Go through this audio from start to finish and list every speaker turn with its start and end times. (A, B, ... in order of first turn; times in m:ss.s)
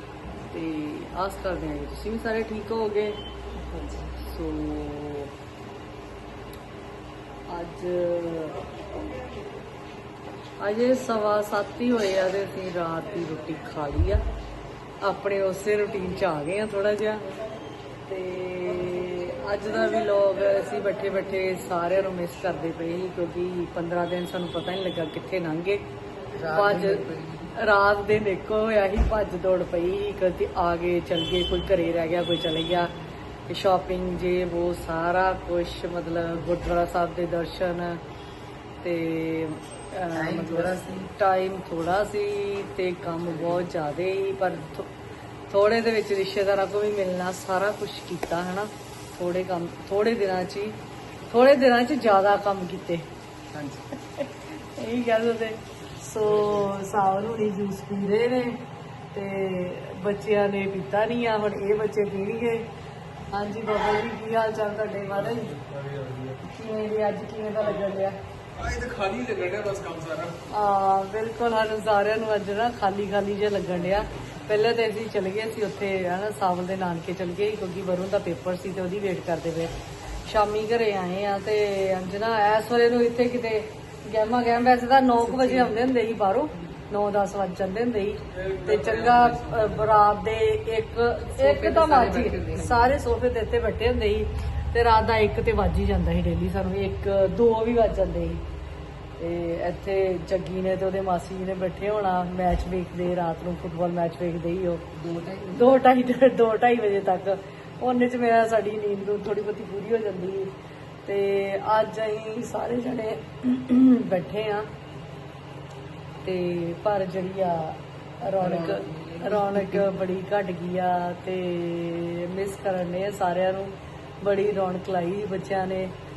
0:00.5-0:03.2 A
0:03.6-0:04.1 B
0:04.2-0:05.3 A
0:07.5-0:08.6 A
0:10.6-0:14.2 A
0:15.0-0:17.2 A
0:18.1-0:25.8 A
0:26.4-0:27.5 B
0:26.5-0:27.0 A
0:27.6-0:32.9 A
0:33.5-0:38.0 A
0:38.8-0:44.9 A
0:40.1-0:41.1 B
0:43.3-0:43.7 B
0:45.5-0:50.8 A
0:51.3-0:53.1 A
0:53.5-0:53.9 B
0:54.6-0:58.6 A
0:59.1-1:02.7 A
1:03.3-1:05.5 A
1:05.1-1:06.4 C
1:06.4-1:08.2 A
1:07.6-1:08.0 C
1:08.6-1:10.4 C
1:10.5-1:19.7 A
1:20.3-1:38.4 A
1:25.2-1:25.8 B
1:28.3-1:30.0 C
1:31.3-1:33.0 B
1:39.2-1:44.8 A
1:44.9-1:45.8 B
1:45.6-1:50.5 A
1:51.1-1:54.7 A
1:56.2-2:05.9 A
1:58.4-1:59.9 B